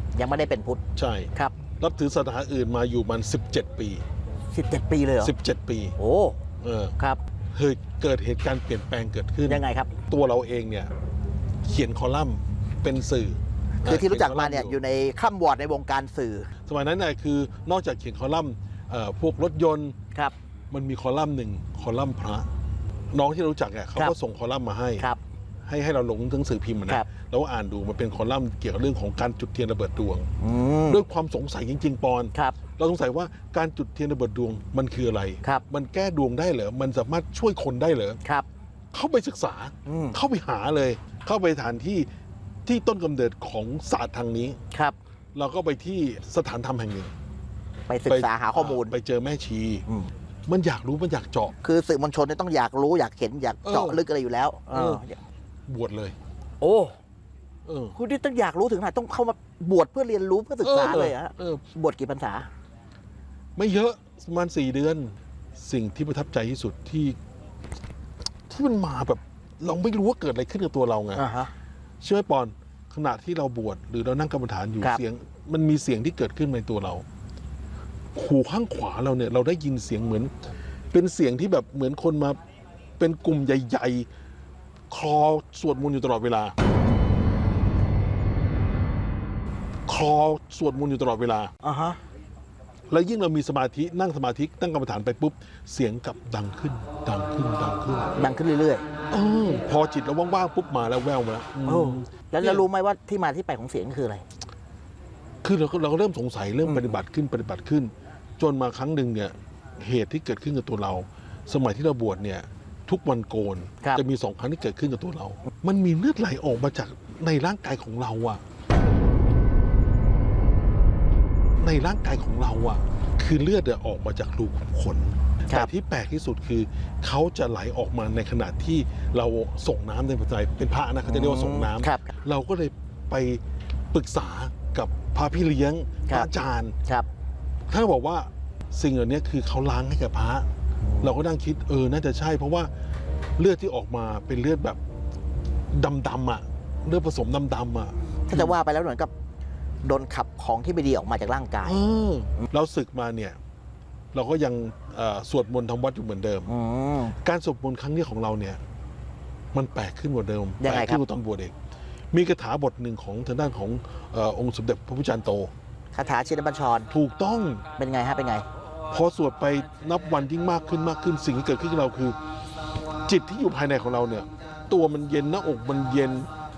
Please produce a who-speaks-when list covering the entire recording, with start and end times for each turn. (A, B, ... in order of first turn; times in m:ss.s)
0:00.1-0:00.8 A
0:00.9-0:04.0 B
0:04.5-0:05.3 A
0:05.2-0:06.0 B
0:06.0-0:06.4 A
0:06.6-0:06.9 B
0:07.5-0:10.9 B
0:09.5-0:09.9 A
0:11.6-0:14.8 B
0:13.8-0:16.5 A
0:16.6-0:20.0 B
0:20.7-0:22.5 B
0:23.1-0:25.1 B
0:25.6-0:30.3 B
0:30.4-0:31.0 A
0:30.9-0:38.2 B
0:38.9-0:42.1 B
0:39.8-0:40.2 A
0:42.6-0:44.6 B
0:44.7-0:45.0 A
0:45.3-0:47.1 B
0:47.9-0:48.9 A
0:48.1-0:49.8 B
0:49.9-0:50.1 A
0:50.5-0:51.5 B
0:51.6-0:55.2 A
0:53.6-0:54.0 B
0:54.7-0:55.0 B
0:55.7-0:56.2 B
0:56.6-0:57.0 A
0:57.6-0:58.0 B
0:57.9-1:02.5 A
1:00.6-1:01.6 B
1:03.6-1:07.2 B
1:08.5-1:11.2 B
1:11.2-1:11.5 A
1:12.0-1:17.0 B
1:18.1-1:20.3 B
1:20.9-1:22.4 B
1:23.0-1:24.1 B
1:24.9-1:26.6 B
1:29.9-1:31.5 B
1:31.6-1:32.0 A
1:32.9-1:38.1 B
1:38.2-1:38.8 A
1:39.1-1:42.6 B
1:41.6-1:44.2 A
1:45.4-1:58.4 B
1:46.6-1:47.0 A
2:01.6-2:16.8 B
2:11.0-2:12.1 A
2:16.1-2:16.3 A
2:17.7-2:20.5 B
2:20.8-2:21.1 A
2:21.0-2:22.7 B
2:23.4-2:24.8 B
2:25.7-2:28.6 B
2:28.3-2:29.1 A
2:29.8-2:31.8 A
2:31.6-2:33.4 B
2:34.1-2:36.5 B
2:36.5-2:37.1 A
2:37.2-2:38.6 B
2:39.5-2:41.5 B
2:40.6-2:41.0 A
2:42.1-2:45.5 B
2:45.9-2:46.9 A
2:46.9-2:47.6 B
2:47.8-2:48.4 A
2:48.9-2:52.2 B
2:53.0-2:56.3 B